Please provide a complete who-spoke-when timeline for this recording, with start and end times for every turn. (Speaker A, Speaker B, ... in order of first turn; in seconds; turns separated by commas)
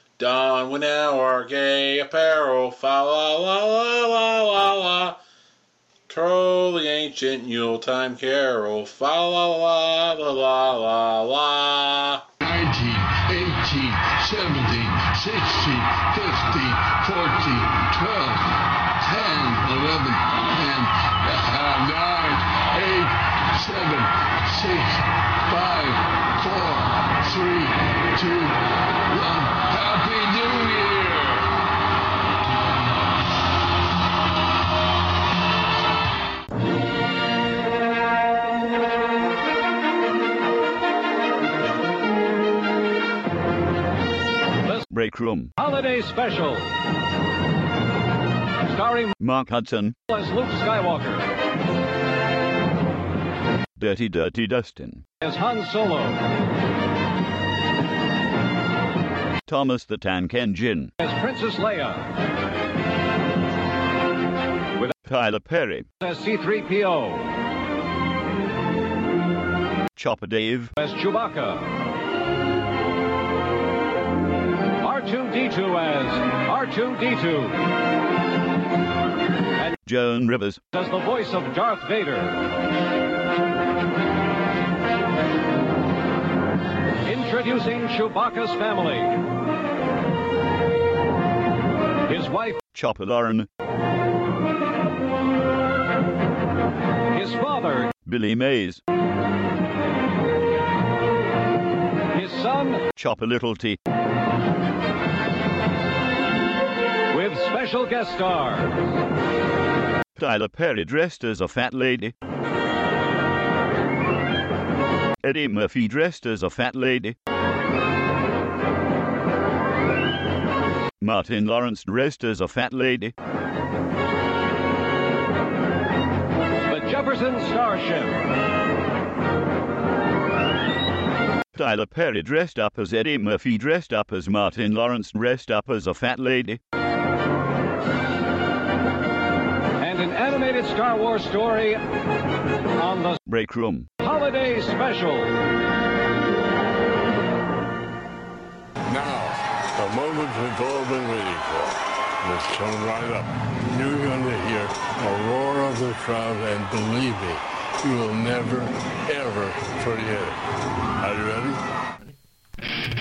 Speaker A: 0.2-5.2, Speaker A: 6.1-12.2, Speaker B: 12.4-31.5, Speaker C: 44.9-45.5, Speaker D: 45.6-46.7, Speaker D: 48.6-49.1, Speaker C: 49.2-50.0, Speaker D: 50.1-51.3, Speaker C: 53.8-55.0, Speaker D: 55.2-56.2, Speaker C: 59.5-60.9, Speaker D: 61.0-62.0, Speaker C: 65.0-65.8, Speaker D: 66.0-67.3, Speaker C: 70.0-70.7, Speaker D: 70.8-71.7, Speaker D: 74.8-77.6, Speaker C: 79.8-80.6, Speaker D: 80.7-82.4, Speaker D: 87.0-89.2, Speaker D: 92.1-92.6, Speaker C: 92.7-93.5, Speaker D: 97.1-97.9, Speaker C: 98.0-98.8, Speaker D: 102.1-102.8, Speaker C: 102.9-103.8, Speaker D: 107.1-108.8, Speaker C: 110.2-112.1, Speaker C: 115.2-117.2, Speaker C: 121.0-123.1, Speaker D: 126.7-128.2, Speaker C: 131.5-136.6, Speaker D: 139.8-141.8, Speaker D: 142.8-143.2, Speaker C: 143.2-143.9, Speaker D: 144.0-145.3, Speaker E: 148.8-160.4, Speaker E: 161.0-161.6